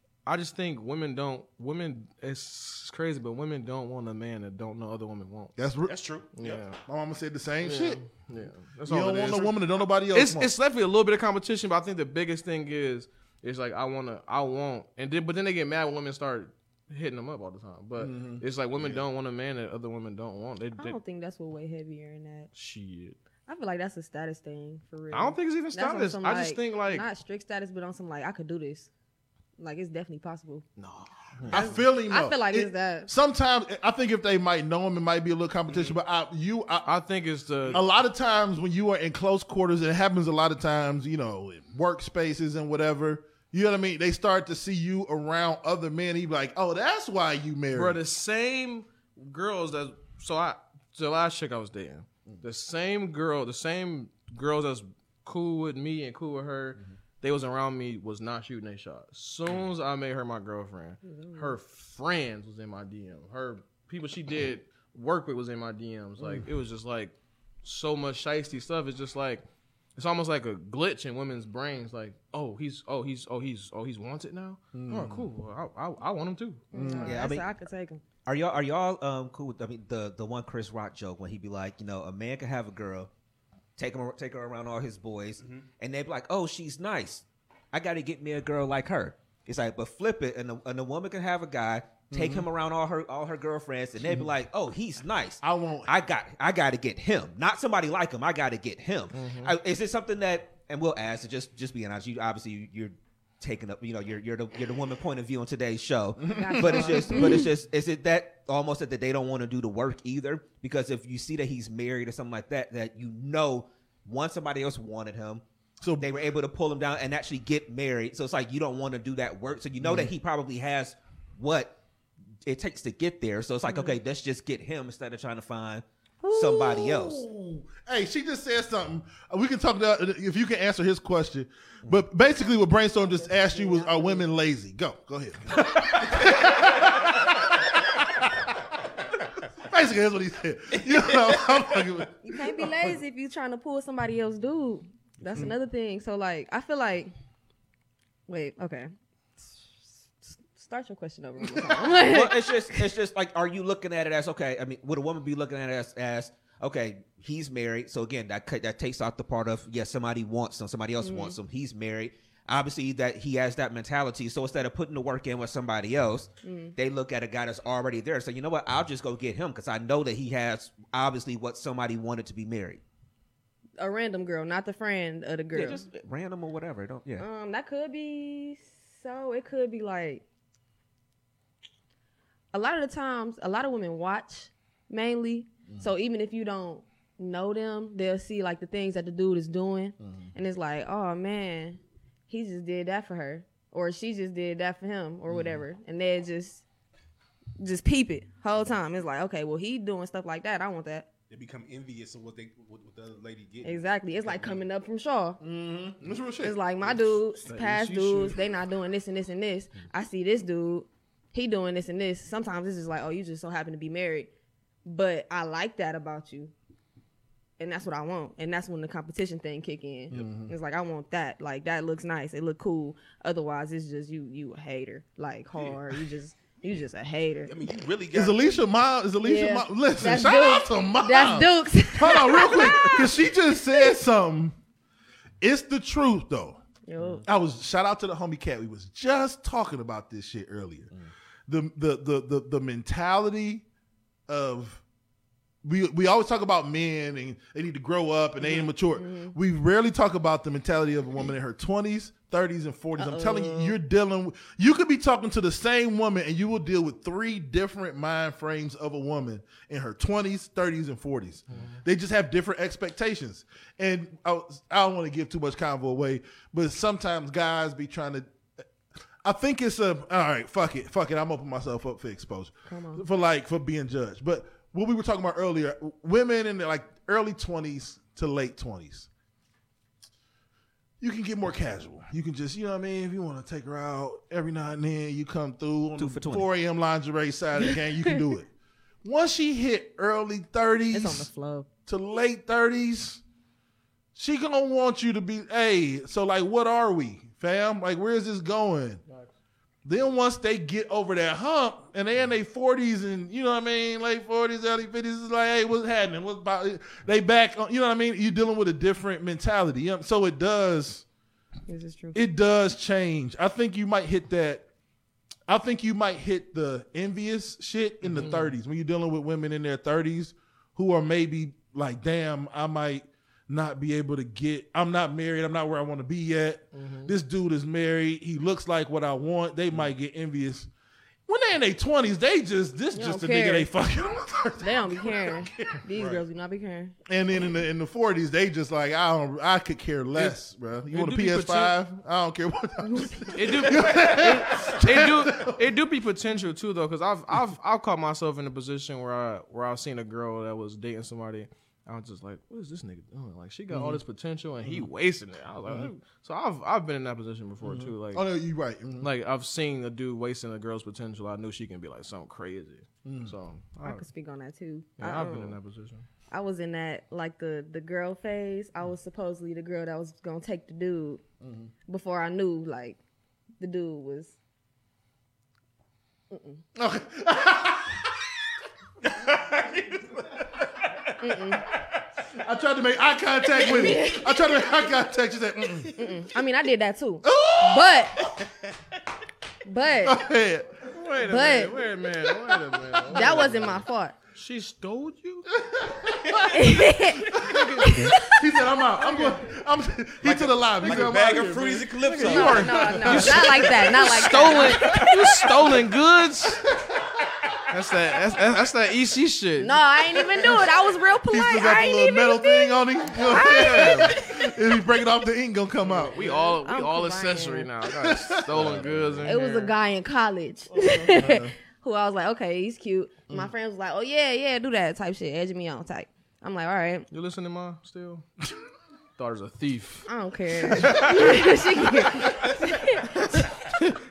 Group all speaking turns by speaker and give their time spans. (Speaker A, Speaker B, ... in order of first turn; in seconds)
Speaker A: 0.2-5.5, 6.3-6.8, 7.6-21.0, 22.5-23.2, 25.1-27.1, 30.8-31.1, 36.9-37.8, 47.7-69.4, 70.0-76.7, 99.1-99.5, 207.4-208.4, 261.5-261.8, 318.0-318.5, 326.7-327.1, 340.9-341.8, 343.3-358.2, 359.0-364.0, 365.0-366.1, 390.9-395.5, 397.4-398.4, 402.0-406.6, 407.7-409.8, 413.4-414.1, 415.8-419.7, 427.1-428.3, 429.2-430.1
Speaker B: 5.6-5.9, 6.8-8.0, 8.9-10.5, 18.0-18.4, 31.5-36.9, 37.7-48.0, 66.2-66.5, 74.7-75.3, 76.7-77.2, 92.1-92.5, 94.0-94.3, 95.4-95.9, 106.2-107.4, 115.8-116.1, 119.8-120.1, 126.2-138.5, 139.6-142.9, 151.4-151.9, 190.0-190.3, 195.3-195.6, 205.4-206.6, 220.1-220.5, 228.1-234.6, 235.4-236.6, 237.2-240.9, 241.5-243.6, 244.3-244.8, 245.6-268.3, 269.2-279.1, 281.0-288.5, 289.0-291.3, 291.9-293.2, 294.1-299.0, 299.8-311.1, 312.1-314.7, 315.5-330.7, 331.3-335.5, 337.1-345.8, 353.7-354.0, 354.6-354.9, 355.6-355.9, 357.6-359.1, 363.0-363.4, 371.4-371.7, 376.8-378.3, 382.3-386.0, 387.2-388.4, 390.0-390.8, 395.5-396.7, 397.3-405.1, 406.7-407.6, 411.3-416.5, 417.9-419.3, 420.7-421.5
Speaker C: 5.9-6.7, 85.4-85.7, 140.9-141.6, 201.3-204.6, 227.4-228.5, 335.9-336.2, 379.2-380.0, 400.2-402.9
Speaker D: 20.8-22.5, 23.5-28.9, 29.6-30.6, 31.5-33.1, 61.0-61.6, 76.7-78.0, 106.3-107.5, 123.7-124.0, 133.2-134.2, 142.2-147.1, 148.3-152.8, 161.0-161.3, 166.4-166.7, 173.8-175.8, 177.2-180.2, 182.5-196.6, 197.6-201.1, 203.6-205.4, 206.4-214.3, 214.8-216.5, 217.6-227.5, 229.2-233.9, 236.9-237.2, 248.4-249.3, 253.0-253.7, 272.7-273.0, 287.6-288.2, 290.9-291.7, 311.7-312.2, 332.9-333.7, 334.6-336.9, 342.8-343.4, 363.8-365.6, 366.3-371.2, 371.9-373.0, 373.6-374.4, 376.3-376.6, 381.2-381.6, 383.6-384.7, 385.9-388.2, 389.6-390.2, 391.2-391.7, 393.1-394.1, 396.5-398.2, 402.2-405.0, 409.6-414.3, 416.2-417.7, 419.2-427.1, 430.1-433.5
Speaker E: 77.0-77.5, 78.2-83.1, 83.8-115.4, 116.0-121.8, 122.5-127.2, 152.0-172.8, 175.5-177.2, 286.0-286.4